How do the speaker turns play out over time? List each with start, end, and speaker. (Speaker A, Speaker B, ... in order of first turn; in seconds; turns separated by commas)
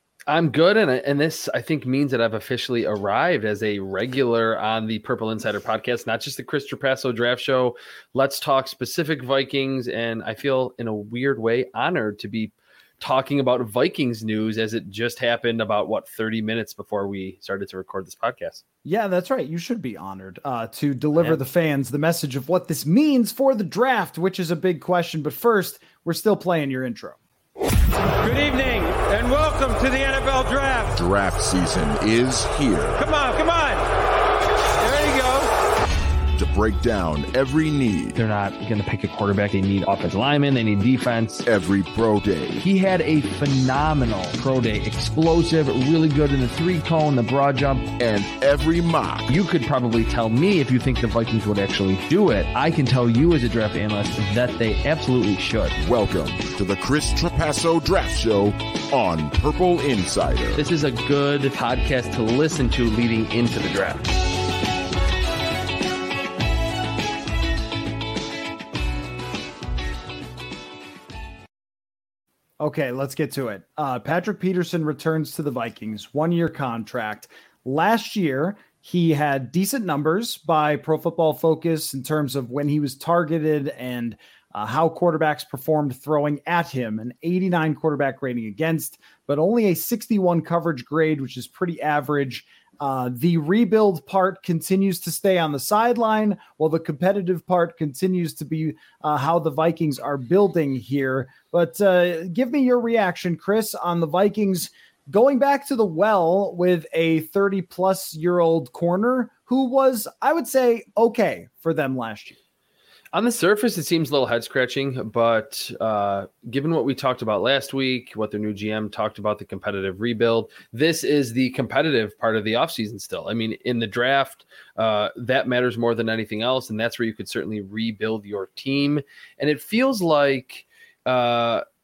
Speaker A: 0.3-18.6, Speaker B: 18.8-27.2, Speaker C: 28.2-30.9, Speaker D: 30.9-33.0, Speaker C: 33.0-33.9, Speaker C: 34.8-35.5, Speaker D: 36.3-38.2, Speaker A: 38.1-41.4, Speaker D: 41.5-42.6, Speaker A: 42.6-48.0, Speaker D: 48.0-49.3, Speaker A: 49.3-55.8, Speaker D: 55.8-60.6, Speaker A: 60.5-64.1, Speaker B: 72.6-112.4, Speaker A: 113.1-131.6